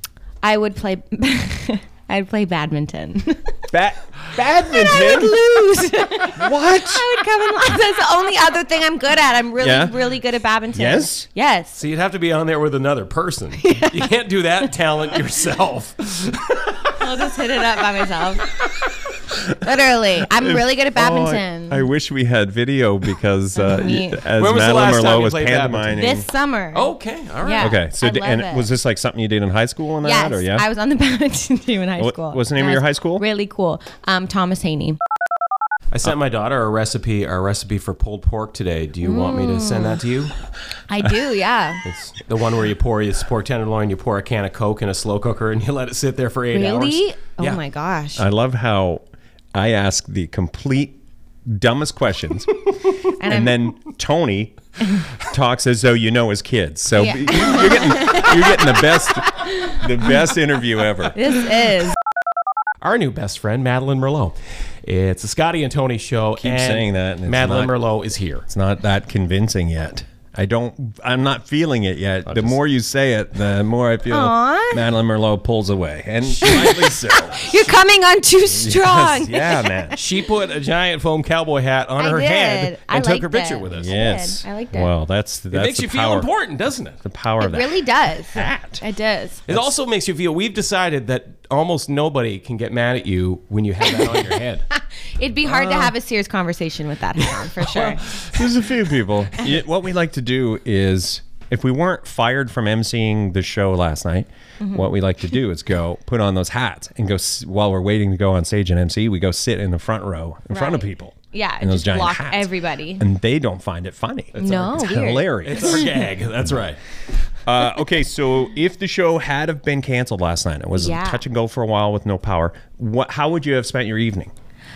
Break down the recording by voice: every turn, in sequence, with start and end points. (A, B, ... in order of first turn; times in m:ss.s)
0:00.4-0:03.7 A
0:03.7-0:05.4 B
0:04.5-0:11.8 A
0:06.3-0:07.0 B
0:09.6-0:09.9 B
0:10.7-0:11.3 B
0:11.8-0:17.0 C
0:13.6-0:14.1 A
0:16.9-0:18.5 A
0:19.6-0:21.9 A
0:20.4-0:26.3 B
0:23.5-0:24.3 A
0:24.4-0:26.0 C
0:25.9-0:28.7 A
0:26.7-0:27.7 C
0:27.6-0:30.6 B
0:30.0-0:35.0 A
0:32.0-0:33.2 B
0:35.9-0:40.3 C
0:39.0-0:40.0 A
0:40.9-0:41.8 A
0:41.8-0:47.6 C
0:46.5-0:48.2 A
0:48.2-0:49.0 B
0:49.5-1:01.2 B
0:53.2-0:53.7 A
0:57.0-0:59.8 A
1:01.1-1:02.0 A
1:02.8-1:08.4 C
1:06.4-1:07.7 B
1:08.5-1:17.7 B
1:12.3-1:12.6 C
1:14.1-1:14.9 A
1:16.4-1:20.0 A
1:18.5-1:20.0 B
1:20.0-1:24.0 C
1:22.0-1:24.9 A
1:23.7-1:26.3 B
1:25.5-1:27.0 C
1:27.0-1:28.8 B
1:27.4-1:29.4 A
1:29.5-1:34.6 C
1:33.9-1:38.0 A
1:35.4-1:35.9 C
1:37.2-1:38.8 C
1:38.3-1:55.9 B
1:44.6-1:44.9 A
1:50.5-1:53.0 A
1:54.3-1:56.8 C
1:54.4-1:56.0 A
1:57.4-2:04.3 B
2:00.7-2:01.2 A